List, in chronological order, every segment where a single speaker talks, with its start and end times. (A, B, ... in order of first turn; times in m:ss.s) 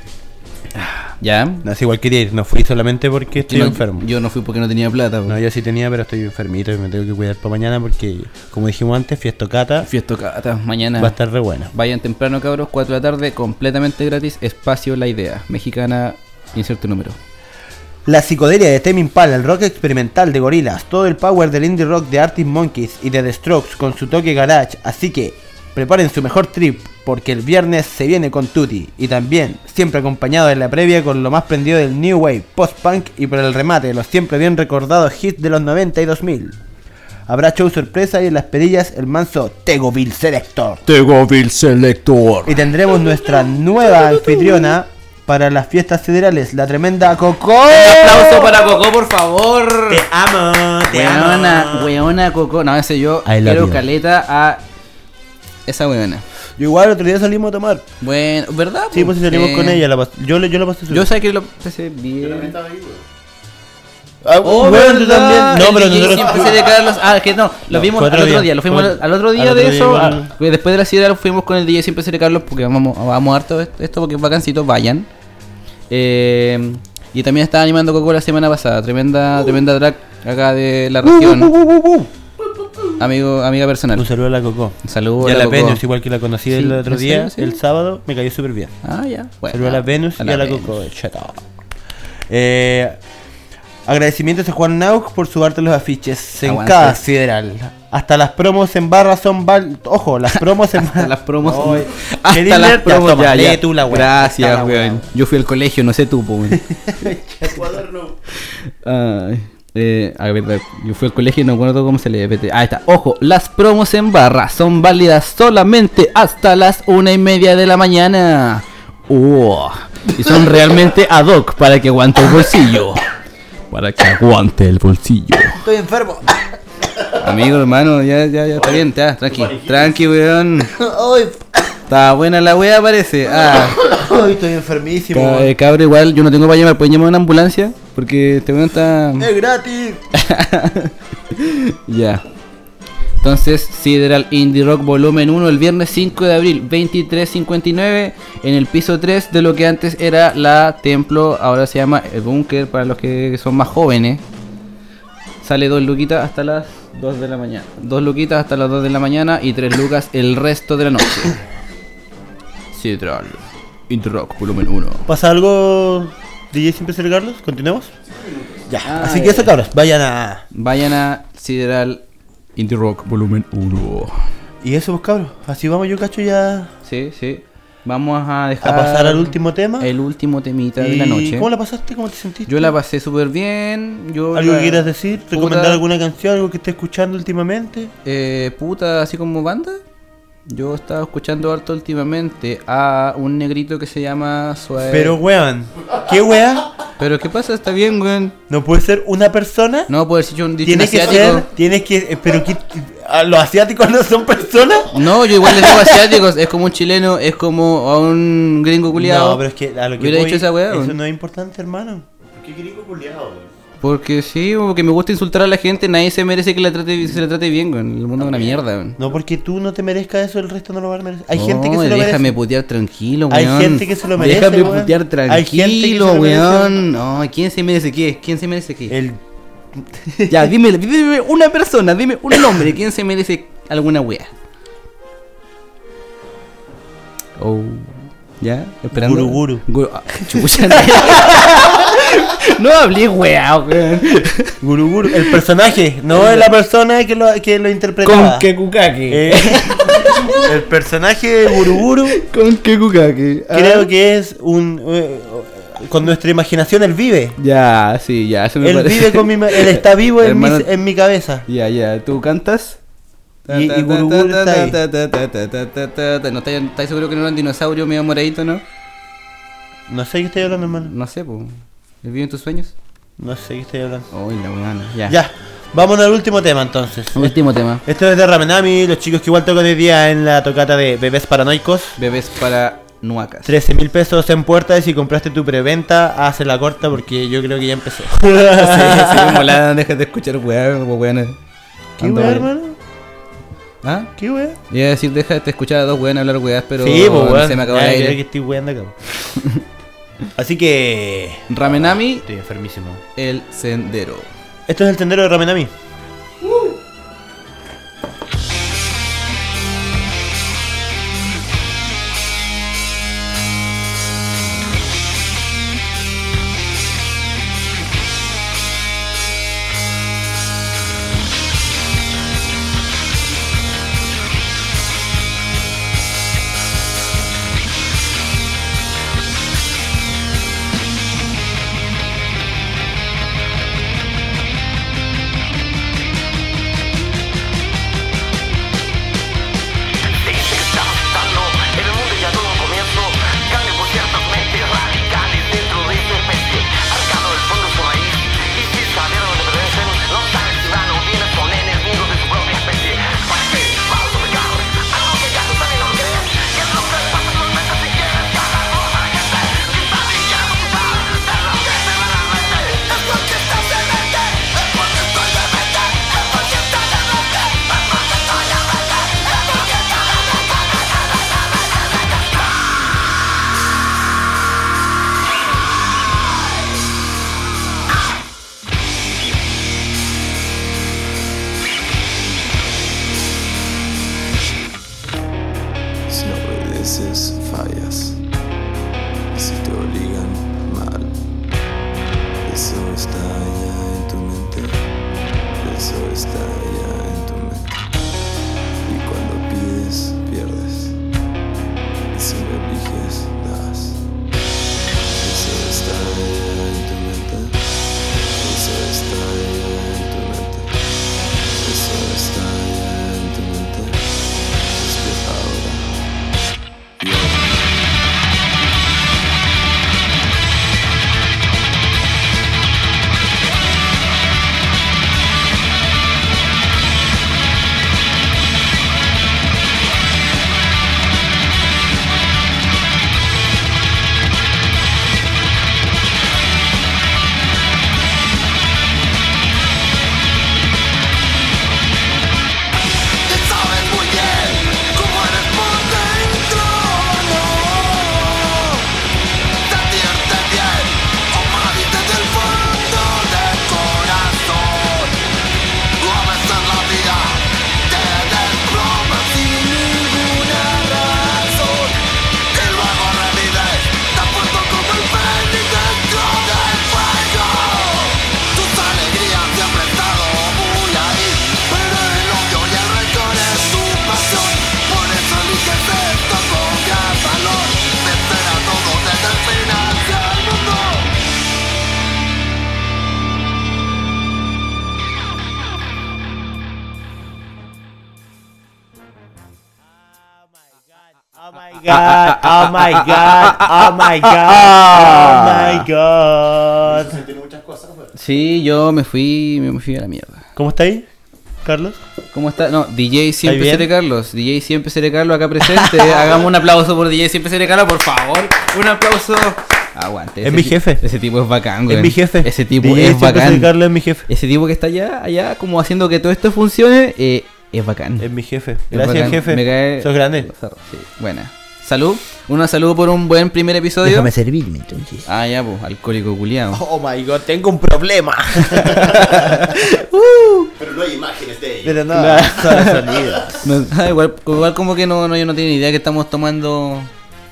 0:00.8-0:01.6 A
0:01.6-0:04.0 B
0:03.5-0:05.4 A
0:05.3-0:09.9 B
0:09.8-0:11.2 A
0:11.0-0:11.7 B
0:11.7-0:17.2 A
0:18.0-0:36.6 B
0:37.3-0:40.8 B
0:40.9-0:44.7 A
0:42.4-0:48.7 B
0:47.7-0:50.0 A
0:49.9-0:51.9 B
0:50.9-0:54.6 A
0:53.2-0:53.8 B
0:55.7-0:56.2 A
0:56.6-0:57.9 B
0:58.0-0:59.8 A
0:58.9-1:01.1 B
1:00.9-1:02.6 A
1:02.2-1:03.0 C
1:04.2-1:06.6 B
1:04.4-1:15.1 A
1:06.1-1:06.8 C
1:07.7-1:10.3 B
1:15.9-1:21.5 A
1:21.0-1:22.1 B
1:23.0-1:24.1 A
1:24.0-1:28.7 B
1:24.8-1:25.8 A
1:26.5-1:27.6 A
1:28.8-1:30.8 A
1:29.5-1:31.4 B
1:32.3-1:33.0 B
1:33.8-1:45.1 B
1:36.4-1:37.0 A
1:40.3-1:46.6 A
1:46.5-1:47.7 B
1:47.5-1:48.2 C
1:48.5-2:03.0 A
2:03.7-2:05.6 A
2:05.6-2:06.4 B
2:07.2-2:10.7 A
2:08.6-2:10.0 C
2:10.7-2:11.5 B
2:11.9-2:13.8 A
2:13.6-2:15.5 B
2:15.1-2:19.3 A
2:19.2-2:20.0 B
2:20.1-2:22.2 A
2:23.2-2:34.2 A
2:35.4-2:41.4 A
2:42.7-2:45.0 A
2:45.0-2:47.9 B
2:48.1-2:48.6 C
2:48.7-2:50.4 B
2:48.8-2:49.5 A
2:50.5-2:52.0 A
2:52.6-2:54.2 A
2:54.6-2:56.7 B
2:56.8-3:01.5 A
2:58.6-2:59.9 B
3:00.8-3:02.7 B
3:02.5-3:05.8 A
3:04.3-3:07.9 B
3:08.0-3:09.8 A
3:10.5-3:15.2 A
3:14.9-3:16.7 B
3:17.0-3:18.4 A
3:18.5-3:19.9 B
3:19.9-3:21.5 A
3:20.6-3:26.2 B
3:24.9-3:29.4 A
3:28.9-3:32.0 B
3:30.0-3:31.0 A
3:32.3-3:33.5 C
3:33.8-3:39.0 A
3:38.2-3:38.6 C
3:39.0-3:42.3 B
3:41.3-3:49.0 A
3:43.3-3:46.8 B
3:48.9-3:49.2 B
3:49.7-3:50.5 B
3:50.3-3:54.3 A
3:57.4-4:04.6 A
3:58.9-3:59.6 B
4:00.3-4:01.4 B
4:04.6-4:08.5 B
4:05.1-4:05.4 A
4:06.1-4:06.5 A
4:08.0-4:10.5 A
4:09.1-4:12.2 B
4:12.1-4:13.9 A
4:13.5-4:17.4 B
4:17.4-4:20.7 A
4:18.6-4:21.4 B
4:21.5-4:22.8 A
4:23.4-4:28.6 A
4:23.5-4:24.8 B
4:29.9-4:30.9 B
4:30.8-4:32.7 A
4:33.2-4:34.1 B
4:34.1-4:35.2 A
4:35.1-4:42.0 B
4:37.2-4:37.8 A
4:42.0-4:43.5 A
4:43.4-4:49.6 B
4:48.4-4:51.4 A
4:52.0-4:52.5 A
4:52.0-4:52.8 B
4:53.8-4:54.1 A
4:54.2-4:54.6 B
4:54.7-4:58.2 A
4:56.8-4:59.0 B
4:59.3-4:59.6 A
5:00.3-5:03.0 B
5:01.5-5:02.2 A
5:03.2-5:04.3 A
5:04.7-5:05.7 B
5:40.0-6:12.3 D
6:26.1-6:28.2 E
6:29.3-6:31.1 E
6:32.4-6:34.8 E
6:35.6-6:37.7 E
6:38.8-6:41.0 E
6:42.1-6:44.0 E
6:45.1-6:47.6 E
6:48.4-6:50.7 E
6:51.6-6:54.1 E
6:54.7-6:55.9 E
6:57.0-6:57.9 E
7:23.2-7:28.8 D
7:29.6-7:35.2 D
7:36.0-8:01.1 D
8:11.3-8:17.2 B
8:11.9-8:15.9 A
8:16.8-8:18.1 C
8:18.2-8:20.4 A
8:20.5-8:21.1 B
8:21.6-8:22.0 B
8:22.3-8:33.7 A
8:23.4-8:23.9 B
8:25.6-8:26.4 B
8:30.4-8:31.0 B
8:31.9-8:34.3 B
8:34.3-8:38.3 A
8:38.2-8:40.5 B
8:38.9-8:44.3 A
8:44.0-8:45.3 B
8:45.2-8:46.8 A
8:46.7-8:49.8 B
8:48.6-8:50.7 A
8:50.8-8:52.0 C
8:51.8-8:53.6 B
8:52.1-8:57.1 A